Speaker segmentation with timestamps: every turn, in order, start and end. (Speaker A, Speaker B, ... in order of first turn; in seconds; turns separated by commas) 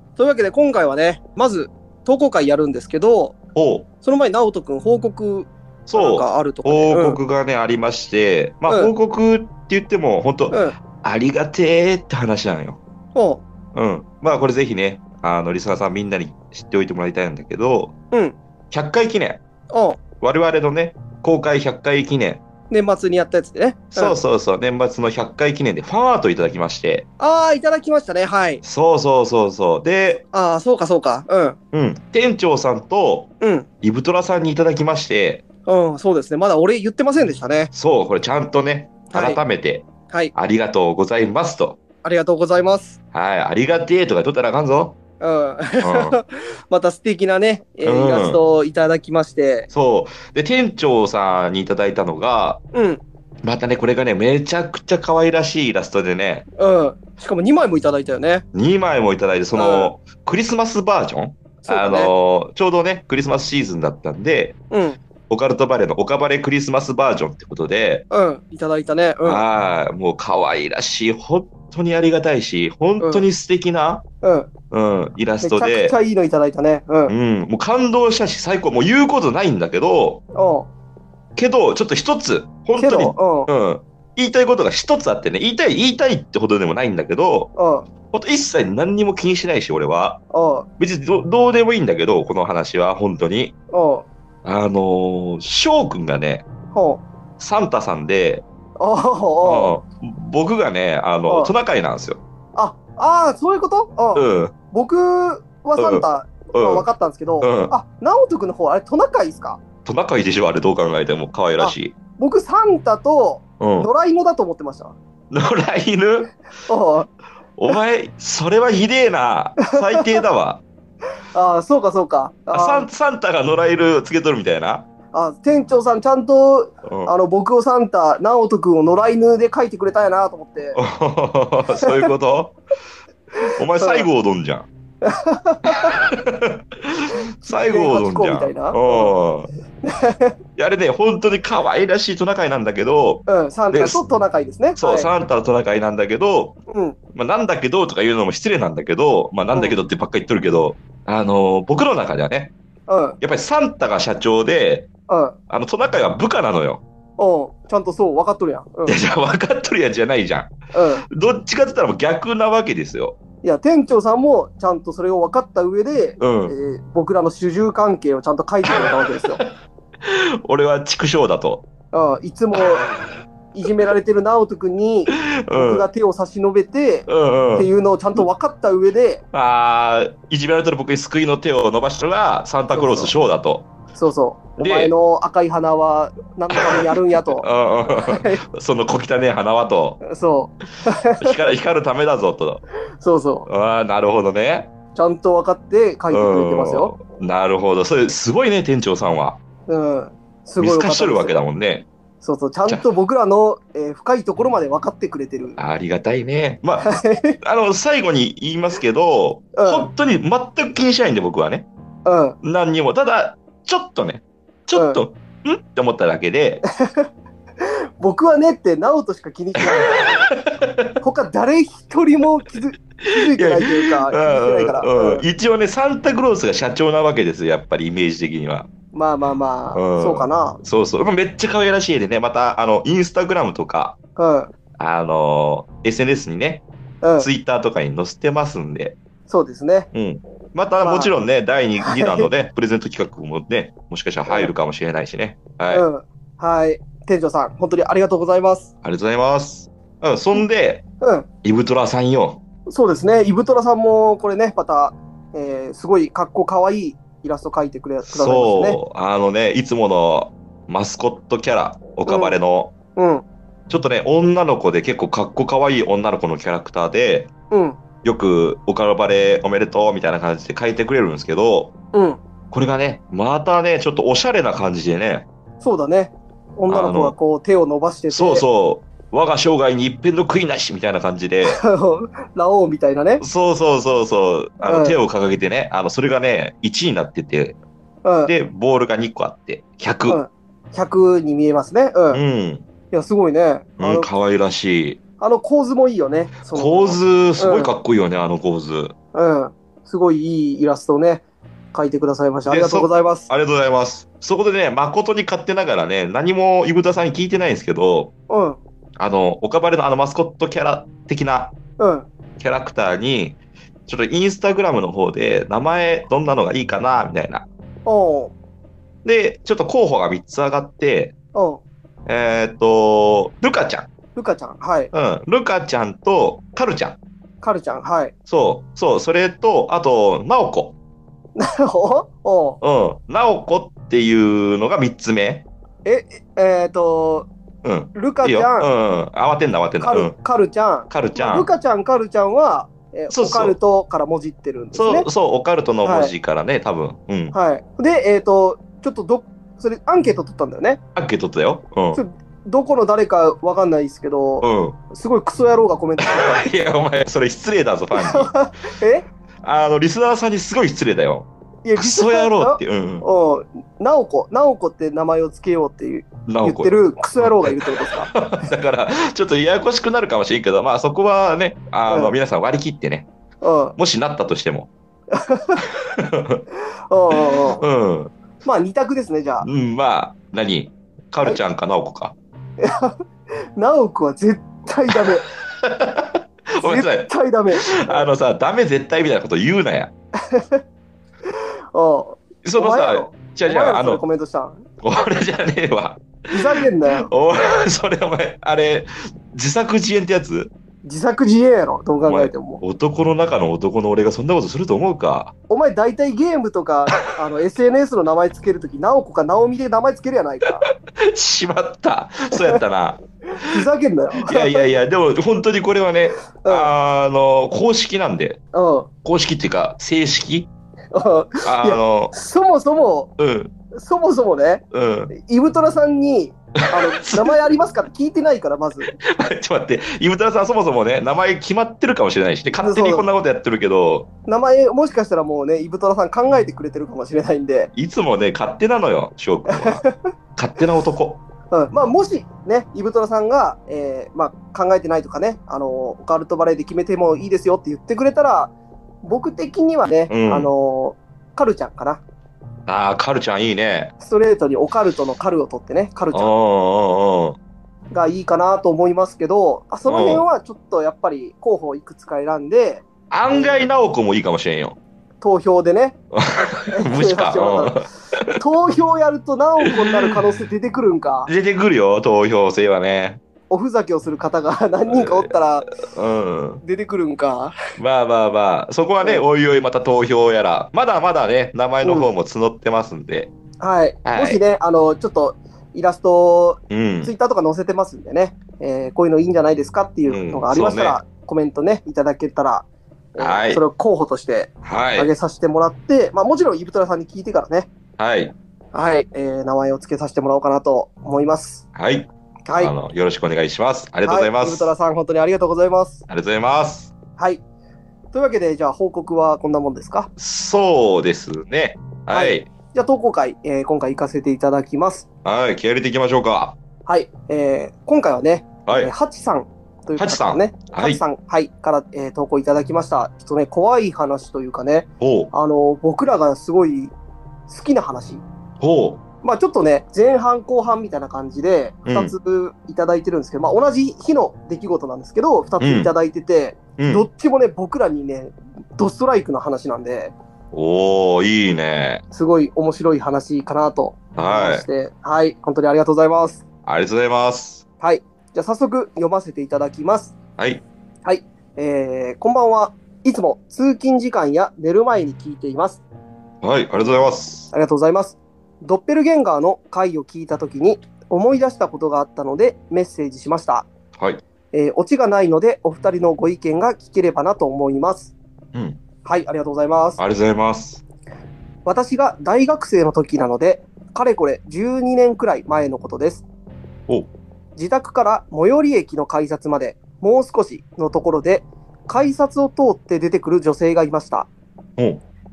Speaker A: 0.2-3.4, Speaker B: 3.5-3.9, Speaker A: 4.0-7.2, Speaker B: 5.9-12.8, Speaker A: 10.5-10.8, Speaker A: 13.1-13.4, Speaker B: 13.7-17.9, Speaker B: 18.7-19.4, Speaker A: 19.7-20.0, Speaker B: 20.2-22.4, Speaker A: 22.7-24.2, Speaker B: 23.9-27.1, Speaker A: 27.2-28.6, Speaker B: 28.6-30.2, Speaker A: 30.3-31.6, Speaker B: 31.7-33.3, Speaker A: 33.4-33.6, Speaker B: 33.8-35.4, Speaker A: 35.6-37.7, Speaker B: 37.7-41.8, Speaker A: 39.1-39.4, Speaker A: 42.0-43.0, Speaker B: 43.1-45.0, Speaker A: 45.2-49.7, Speaker B: 45.8-46.2, Speaker B: 47.8-48.4, Speaker B: 49.7-52.6, Speaker A: 52.7-53.0, Speaker B: 53.4-56.5, Speaker A: 56.6-58.4, Speaker B: 58.5-64.5, Speaker A: 59.5-59.9, Speaker A: 61.6-62.1, Speaker A: 64.7-65.0, Speaker B: 65.3-68.0, Speaker A: 68.1-69.4, Speaker B: 69.2-74.0, Speaker A: 73.0-73.2, Speaker A: 74.2-74.5, Speaker B: 74.7-76.0, Speaker A: 75.4-77.1, Speaker B: 77.1-80.2, Speaker A: 80.3-80.7, Speaker B: 81.3-87.5, Speaker A: 82.8-83.5, Speaker A: 87.6-87.9, Speaker B: 88.1-90.2, Speaker A: 90.3-90.7, Speaker B: 90.8-93.5, Speaker A: 93.7-94.0, Speaker B: 94.4-96.4, Speaker A: 96.7-97.0, Speaker B: 97.4-98.4, Speaker A: 98.8-99.8, Speaker B: 99.4-102.2, Speaker A: 101.3-101.5, Speaker A: 102.5-109.6, Speaker B: 104.1-104.5, Speaker B: 105.8-106.9, Speaker B: 107.4-107.7, Speaker B: 109.8-111.9, Speaker A: 111.6-115.0, Speaker B: 113.6-113.9, Speaker B: 115.3-116.3, Speaker A: 116.7-117.1, Speaker B: 117.6-120.6, Speaker A: 119.6-120.2, Speaker A: 121.3-122.9, Speaker B: 122.5-124.8, Speaker A: 125.1-130.8, Speaker B: 126.8-127.1, Speaker B: 130.8-132.6, Speaker A: 131.8-132.1, Speaker B: 133.5-134.7, Speaker A: 133.8-134.1, Speaker A: 135.0-136.0, Speaker B: 135.7-139.5, Speaker A: 137.5-139.1, Speaker A: 139.8-140.3, Speaker B: 140.6-144.0, Speaker A: 143.3-145.1, Speaker B: 144.8-146.6, Speaker A: 146.7-147.0, Speaker B: 147.1-152.5, Speaker A: 152.9-153.2, Speaker B: 153.2-154.9, Speaker A: 155.1-155.3, Speaker B: 155.5-156.8, Speaker A: 157.2-159.0, Speaker B: 158.8-160.5, Speaker A: 160.7-161.0, Speaker B: 161.1-163.2, Speaker A: 163.4-169.4, Speaker B: 166.2-166.5, Speaker B: 168.7-169.5, Speaker B: 170.0-171.6, Speaker A: 171.9-172.9, Speaker A: 173.5-179.2, Speaker B: 175.1-175.9, Speaker B: 177.1-177.7, Speaker B: 179.3-183.7, Speaker A: 182.7-183.1, Speaker A: 183.9-188.4, Speaker B: 184.6-184.9, Speaker B: 186.5-190.0, Speaker A: 190.0-191.5, Speaker B: 191.2-192.6, Speaker A: 193.0-193.5, Speaker B: 193.5-194.7, Speaker A: 194.9-196.9, Speaker B: 196.1-199.4, Speaker A: 199.7-201.4, Speaker B: 200.6-201.8, Speaker A: 202.2-205.6, Speaker B: 205.6-206.9, Speaker A: 206.8-207.4, Speaker B: 207.4-211.7, Speaker A: 209.6-209.9, Speaker A: 212.1-212.4, Speaker B: 212.4-216.6, Speaker A: 214.7-215.0, Speaker A: 216.8-217.1, Speaker A: 217.6-220.0, Speaker B: 219.6-220.9, Speaker A: 221.0-225.2, Speaker B: 223.1-228.7, Speaker A: 228.9-230.6, Speaker B: 229.7-234.0, Speaker A: 234.2-234.5, Speaker B: 234.8-236.6, Speaker A: 237.0-237.3, Speaker B: 237.2-239.0, Speaker A: 239.3-239.9, Speaker B: 239.9-245.8, Speaker A: 240.8-241.1, Speaker A: 241.8-242.3, Speaker A: 244.3-244.5, Speaker A: 245.7-248.7, Speaker B: 248.8-250.8, Speaker A: 251.0-251.2, Speaker B: 251.4-252.4, Speaker A: 252.7-258.8, Speaker B: 258.1-262.7, Speaker A: 262.1-262.4, Speaker A: 262.9-263.2, Speaker B: 263.7-267.3, Speaker A: 267.5-267.8, Speaker B: 268.0-271.7, Speaker A: 271.9-272.2, Speaker B: 272.5-275.2, Speaker A: 275.6-278.4, Speaker B: 276.7-277.1, Speaker B: 278.1-281.6, Speaker A: 281.4-283.2, Speaker B: 283.2-287.6, Speaker A: 284.6-285.0, Speaker A: 288.0-288.3, Speaker B: 288.2-290.2, Speaker A: 290.1-292.2, Speaker B: 292.1-292.6, Speaker A: 292.9-294.1, Speaker B: 293.8-295.0, Speaker A: 295.2-297.7, Speaker B: 296.5-298.9, Speaker A: 299.1-301.2, Speaker A: 301.7-303.3, Speaker B: 302.5-308.1, Speaker A: 308.3-308.6, Speaker B: 309.0-311.5, Speaker A: 311.8-312.1, Speaker B: 312.4-317.4, Speaker A: 317.9-318.3, Speaker B: 319.0-321.1, Speaker A: 321.3-321.6, Speaker B: 322.1-323.9, Speaker A: 324.1-324.9, Speaker B: 324.9-327.0, Speaker A: 327.4-328.1, Speaker B: 328.3-330.7, Speaker A: 331.4-332.6, Speaker B: 332.6-335.4, Speaker A: 335.8-337.3, Speaker B: 337.6-340.1, Speaker A: 337.9-338.7, Speaker A: 339.8-345.1, Speaker B: 340.9-341.5, Speaker B: 343.1-343.6, Speaker B: 344.7-347.3, Speaker A: 345.8-346.1, Speaker A: 347.3-350.8, Speaker B: 350.9-352.0, Speaker A: 351.9-356.4, Speaker B: 354.4-354.8, Speaker B: 356.0-358.3, Speaker A: 357.9-359.0, Speaker B: 359.4-363.0, Speaker A: 361.6-368.1, Speaker B: 366.3-373.1, Speaker A: 371.9-372.1, Speaker A: 373.4-373.8, Speaker B: 373.8-374.7, Speaker A: 375.1-375.6, Speaker B: 375.8-376.4, Speaker A: 376.9-377.6, Speaker B: 377.1-378.1, Speaker A: 378.4-379.5, Speaker B: 379.4-382.1, Speaker A: 382.6-382.9, Speaker A: 383.6-385.3, Speaker B: 384.9-389.9, Speaker A: 386.6-388.1, Speaker A: 390.3-390.6, Speaker A: 391.7-394.6, Speaker B: 392.4-394.0, Speaker B: 394.8-400.5, Speaker A: 396.3-397.1, Speaker A: 400.8-402.6, Speaker B: 402.0-405.3, Speaker A: 405.5-410.6, Speaker B: 410.6-413.7, Speaker A: 412.3-412.6, Speaker A: 413.5-414.7, Speaker B: 414.2-418.4, Speaker A: 416.4-416.7, Speaker A: 418.5-418.9, Speaker B: 419.0-420.5, Speaker A: 420.9-423.1, Speaker B: 421.4-422.1, Speaker B: 423.2-423.5, Speaker A: 423.7-428.9, Speaker B: 424.7-425.1, Speaker B: 426.6-427.4, Speaker B: 429.0-434.1, Speaker A: 432.6-433.1, Speaker A: 434.3-437.7, Speaker B: 437.7-439.8, Speaker A: 439.5-440.1, Speaker B: 440.4-441.2, Speaker A: 441.5-448.5, Speaker A: 449.0-452.0, Speaker B: 450.1-450.5, Speaker B: 452.7-453.9, Speaker A: 454.0-456.3, Speaker B: 456.1-457.4, Speaker A: 457.9-462.8, Speaker B: 459.9-460.2, Speaker B: 463.1-464.8, Speaker A: 465.2-466.0, Speaker B: 466.1-468.4, Speaker A: 466.5-467.8, Speaker A: 468.3-471.3, Speaker B: 469.7-469.9, Speaker B: 471.2-473.2, Speaker A: 473.5-475.7, Speaker B: 474.9-476.6, Speaker A: 476.6-477.5, Speaker B: 477.8-483.3, Speaker A: 481.8-482.1, Speaker A: 483.6-497.7, Speaker B: 484.0-484.4, Speaker B: 486.7-487.1, Speaker B: 490.1-491.0, Speaker B: 493.2-493.6, Speaker B: 494.6-495.1, Speaker B: 498.0-498.3, Speaker A: 498.7-501.6, Speaker B: 501.7-504.7, Speaker A: 502.5-502.7, Speaker A: 504.1-506.0, Speaker B: 506.1-506.9, Speaker A: 508.1-510.1, Speaker B: 510.2-512.5, Speaker A: 512.1-515.0, Speaker B: 515.2-516.6, Speaker A: 516.9-526.9, Speaker B: 518.6-518.9, Speaker B: 520.0-521.0, Speaker B: 525.0-525.3, Speaker A: 527.5-528.2, Speaker B: 528.6-529.0, Speaker A: 529.2-540.1, Speaker B: 531.9-532.1, Speaker B: 535.6-535.9, Speaker B: 536.8-537.0, Speaker B: 540.5-542.0, Speaker A: 542.1-546.4, Speaker B: 544.1-544.6, Speaker B: 546.6-547.6, Speaker A: 547.8-550.1, Speaker B: 550.4-550.6, Speaker A: 551.0-555.8, Speaker B: 556.4-557.5, Speaker A: 557.5-563.7, Speaker B: 564.0-564.2, Speaker A: 564.5-568.1, Speaker B: 568.5-568.8, Speaker A: 569.0-570.0, Speaker B: 570.0-570.8, Speaker A: 571.6-576.2, Speaker A: 577.5-584.3, Speaker B: 584.8-585.0